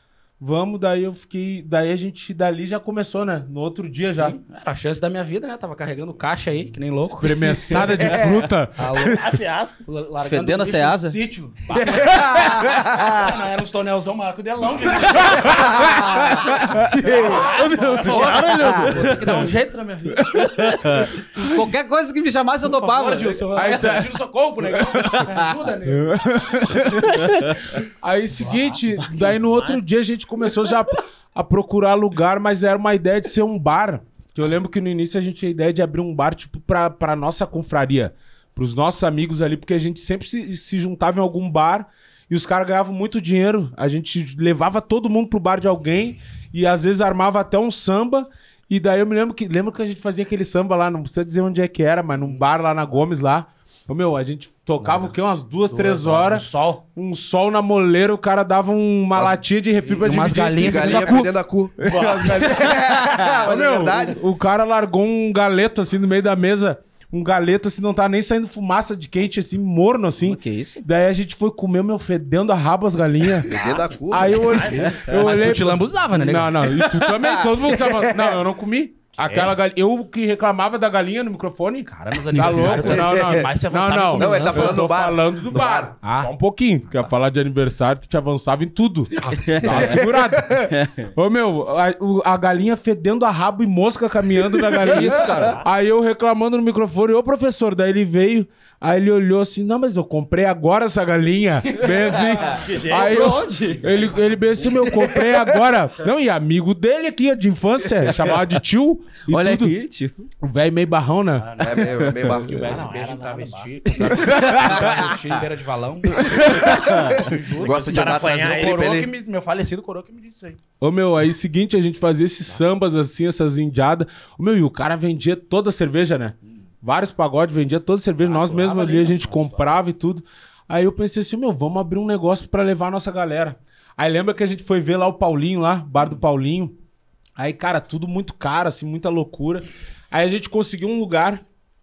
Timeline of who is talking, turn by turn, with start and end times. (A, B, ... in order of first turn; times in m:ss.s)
0:00.4-0:04.4 A
0:04.2-0:07.6 B
0:07.0-0:09.3 A
0:08.0-0:08.4 C
0:08.8-0:09.2 B
0:09.1-0:09.8 D
0:09.8-0:16.0 B
0:10.2-0:11.2 E
0:11.7-0:13.4 C
0:15.4-0:17.5 C
0:15.6-0:17.1 A
0:17.0-0:20.6 B
0:17.2-0:19.5 E
0:18.1-0:19.1 D
0:20.3-0:20.8 A
0:20.5-0:24.0 E
0:22.7-0:27.2 B
0:23.5-0:24.1 A
0:24.9-0:25.5 E
0:25.9-1:01.3 A
0:54.8-0:55.1 B
0:55.7-0:56.8 B
0:59.8-1:01.3 B
1:00.6-1:01.8 C
1:01.8-1:13.5 A
1:01.8-1:02.3 D
1:02.3-1:03.3 E
1:02.4-1:04.2 C
1:10.2-1:10.8 E
1:13.5-1:15.0 C
1:14.1-1:49.7 A
1:14.4-1:15.0 D
1:15.1-1:16.6 B
1:16.6-1:17.6 E
1:17.9-1:18.4 C
1:19.2-1:19.5 E
1:21.9-1:24.8 B
1:22.5-1:23.5 C
1:24.1-1:25.9 C
1:26.0-1:26.3 B
1:29.4-1:29.9 E
1:29.6-1:30.6 C
1:34.8-1:35.4 C
1:34.8-1:35.6 E
1:41.9-1:42.3 E
1:42.3-1:43.4 D
1:42.9-1:43.9 E
1:49.3-1:50.3 E
1:50.4-1:51.7 A
1:51.4-2:00.6 B
1:51.6-1:52.8 C
1:52.7-1:53.8 D
1:54.0-1:55.0 A
1:54.2-1:54.5 C
1:54.3-1:55.1 E
1:56.4-1:59.1 C
1:57.6-1:59.0 D
2:00.8-2:16.7 A
2:08.2-2:09.6 B
2:17.4-2:21.4 A